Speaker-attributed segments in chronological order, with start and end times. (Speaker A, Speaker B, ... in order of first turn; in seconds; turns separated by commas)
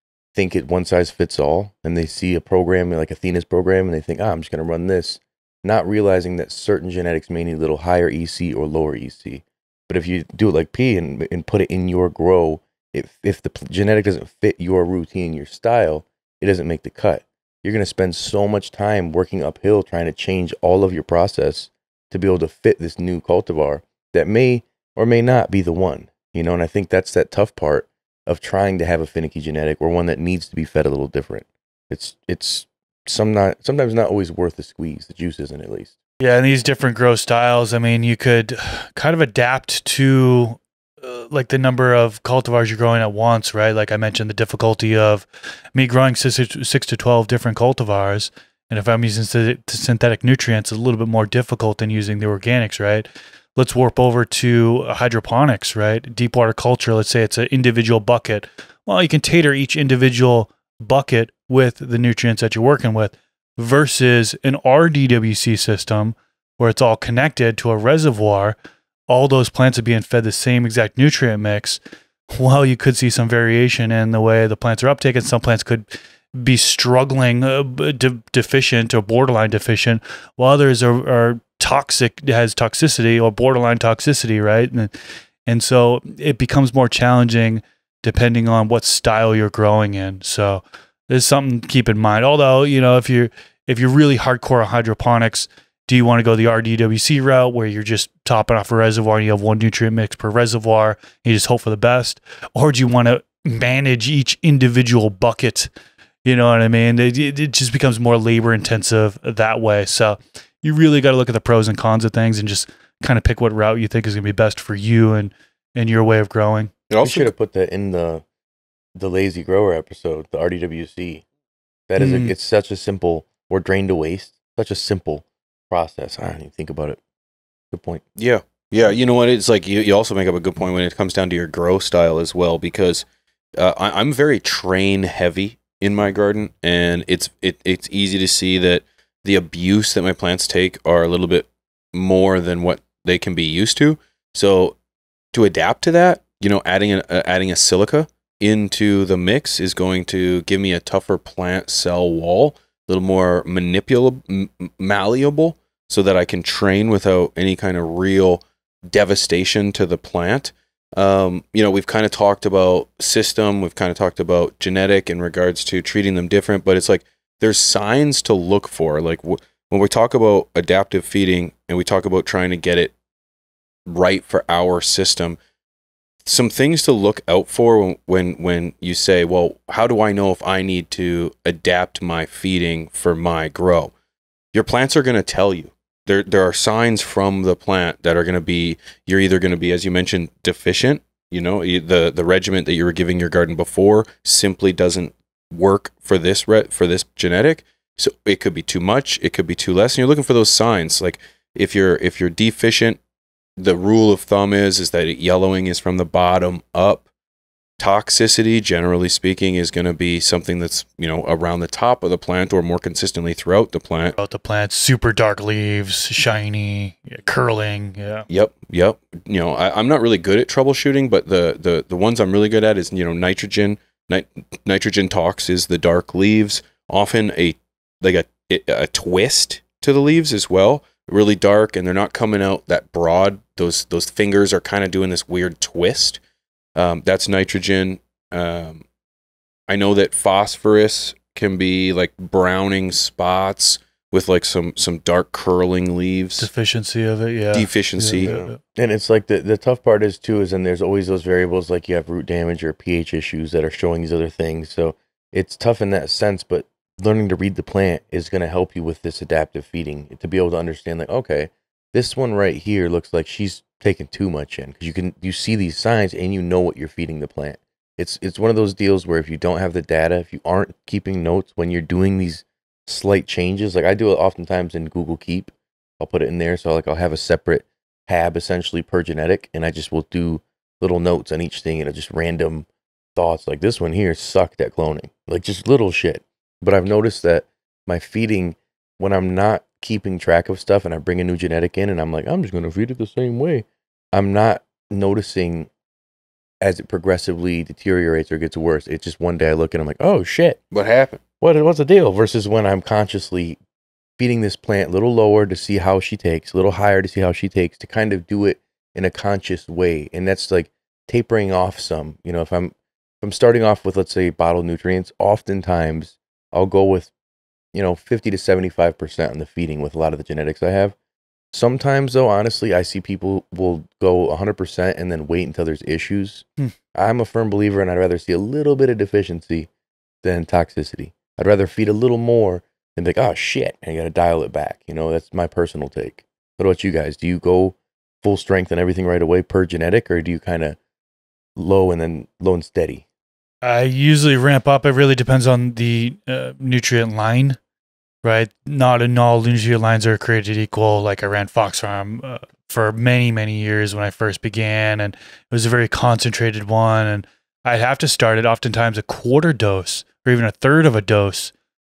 Speaker A: 0.3-36.0, Speaker B: 36.2-68.6, Speaker B: 69.1-84.9, Speaker B: 85.5-105.7, Speaker B: 106.2-116.7, Speaker C: 116.9-117.3, Speaker A: 117.0-118.2, Speaker A: 119.0-121.2, Speaker A: 121.9-127.0, Speaker B: 122.0-122.3, Speaker A: 127.7-128.0, Speaker C: 128.2-133.1, Speaker C: 133.6-144.8, Speaker C: 145.3-172.9, Speaker C: 173.9-175.4, Speaker C: 176.3-183.9, Speaker C: 184.5-203.0, Speaker C: 203.6-207.1, Speaker C: 207.8-214.2, Speaker B: 214.2-218.3, Speaker C: 218.3-236.2, Speaker C: 236.8-238.8, Speaker C: 239.7-246.5, Speaker B: 246.4-248.6, Speaker C: 247.5-248.4, Speaker A: 248.2-295.7, Speaker A: 296.6-300.6, Speaker C: 300.7-301.2, Speaker A: 301.4-303.6, Speaker A: 304.2-317.1, Speaker A: 317.7-321.0, Speaker A: 321.5-329.7, Speaker A: 330.2-340.8, Speaker A: 341.6-343.1, Speaker B: 343.6-347.6, Speaker B: 348.2-361.5